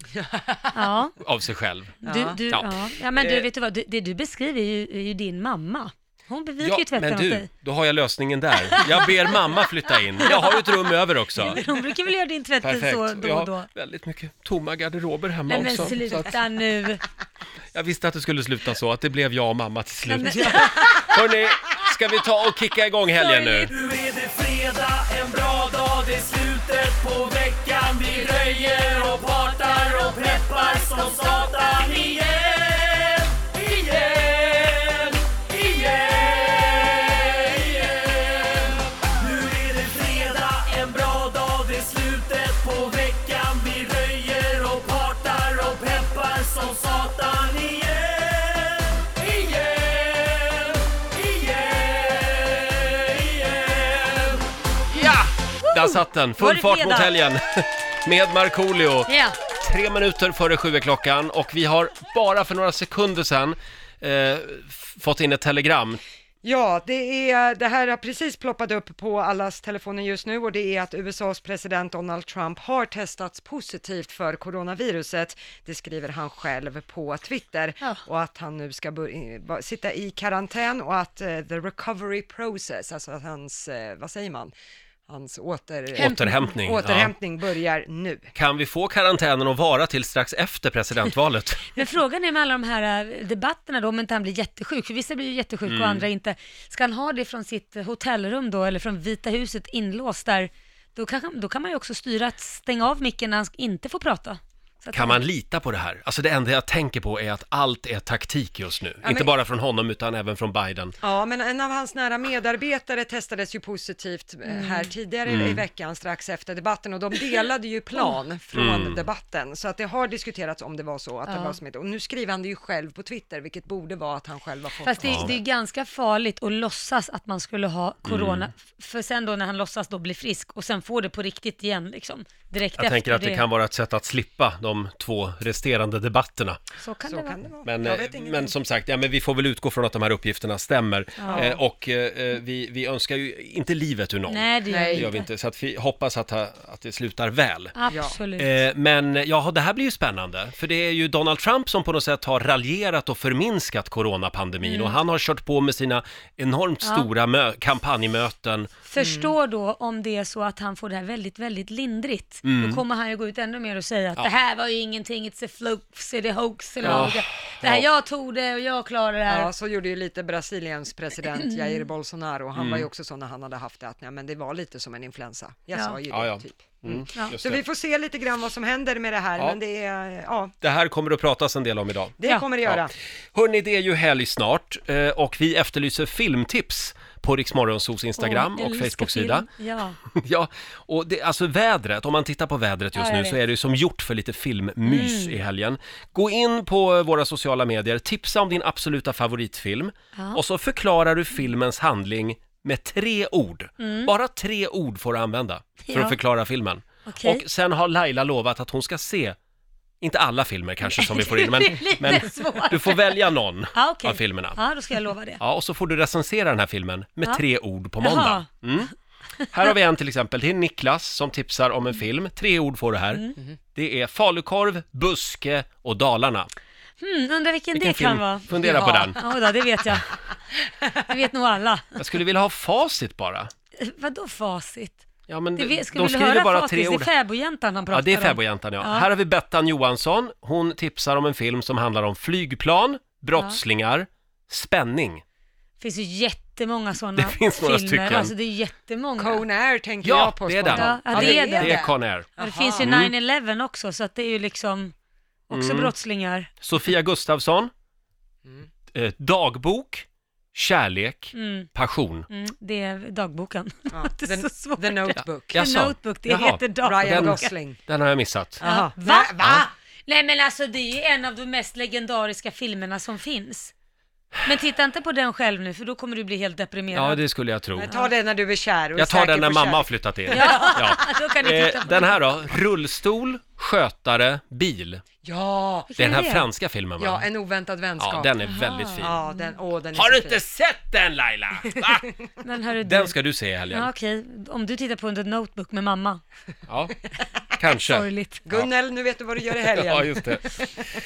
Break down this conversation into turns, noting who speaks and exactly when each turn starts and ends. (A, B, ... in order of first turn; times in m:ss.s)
0:00.1-0:00.8 A
0:00.7-0:01.2 B
0:01.2-0:02.0 C
0:02.0-0:02.4 A
0:02.0-0:07.5 B
0:02.5-0:03.5 C
0:06.6-0:11.6 C
0:08.6-0:13.7 B
0:12.6-0:16.3 C
0:15.5-0:17.0 B
0:17.7-0:23.7 C
0:20.1-0:21.1 B
0:23.2-0:23.7 B
0:23.7-0:54.4 D
0:54.9-1:06.0 C
0:55.6-0:57.1 B
0:59.1-0:59.4 B
1:06.4-1:24.5 A
1:25.1-1:28.3 A
1:25.9-1:27.1 C
1:26.0-1:26.5 B
1:28.4-1:31.7 C
1:31.8-1:45.2 B
1:35.7-1:36.1 C
1:44.9-1:50.9 C
1:49.0-1:49.3 A
1:51.0-2:05.4 A
1:54.4-1:54.9 B
1:55.3-1:55.6 C
1:58.5-1:59.1 C
2:01.3-2:01.6 B
2:04.8-2:13.4 B
2:05.0-2:05.4 C
2:08.0-2:08.5 C
2:12.8-2:16.6 C
2:16.8-2:17.4 B
2:17.0-2:18.5 A
2:17.6-2:27.7 C
2:21.2-2:21.5 B
2:21.2-2:21.6 A
2:24.3-2:25.2 B
2:24.7-2:25.1 A
2:27.8-2:28.5 B
2:27.9-2:28.2 A
2:28.4-2:38.7 C
2:34.6-2:35.0 B
2:38.9-2:49.5 B
2:39.0-2:39.3 A
2:42.4-2:42.8 C
2:46.8-2:47.1 A
2:46.8-2:47.8 C
2:49.3-3:00.5 A
2:51.4-2:51.8 B
2:52.6-2:52.9 C
2:55.7-2:56.0 B
2:56.1-2:57.6 C
3:00.6-3:02.8 C
3:02.2-3:02.9 A
3:03.3-3:09.4 C
3:08.2-3:10.0 B
3:10.1-3:29.4 C
3:13.0-3:13.4 B
3:14.8-3:15.4 B
3:20.1-3:20.4 B
3:23.8-3:24.1 B
3:25.9-3:26.2 B
3:27.1-3:27.4 B
3:30.0-3:34.6 C
3:30.8-3:35.4 B
3:35.4-3:38.9 C
3:38.0-3:38.6 B
3:39.5-3:43.2 C
3:43.7-3:46.5 C
3:47.0-3:50.1 B
3:47.7-3:49.2 C
3:51.0-3:51.9 B
3:52.0-3:53.5 C
3:53.8-3:55.0 B
3:55.3-3:57.1 C
3:55.6-3:59.1 B
3:57.9-4:05.2 C
4:05.8-4:09.4 B
4:07.2-4:08.3 C
4:09.2-4:12.9 A
4:10.0-4:12.3 C
4:10.7-4:14.9 B
4:12.8-4:13.1 C
4:15.5-4:16.5 B
4:15.5-4:15.9 C
4:16.6-4:17.7 C
4:18.9-4:22.3 C
4:21.4-4:21.7 B
4:22.3-4:27.5 B
4:23.9-4:25.6 A
4:25.5-4:28.6 C
4:26.8-4:27.8 A
4:28.6-4:29.7 A
4:28.6-4:33.7 B
4:34.4-4:37.2 B
4:36.9-4:37.9 C
4:37.8-4:40.9 A
4:39.0-4:45.0 C
4:40.3-4:42.2 B
4:45.2-4:45.9 A
4:45.9-4:46.4 B
4:46.0-4:47.2 C
4:47.0-4:48.3 A
4:48.0-4:49.2 C
4:48.4-4:49.5 B
4:49.0-4:50.4 A
4:49.9-4:52.1 C
4:52.4-4:53.2 B
4:52.8-4:53.9 C
4:53.7-4:56.2 B
4:56.7-4:56.9 C
4:57.6-4:58.7 C
4:57.8-4:58.4 B
4:58.4-5:00.8 A
4:59.6-5:00.5 C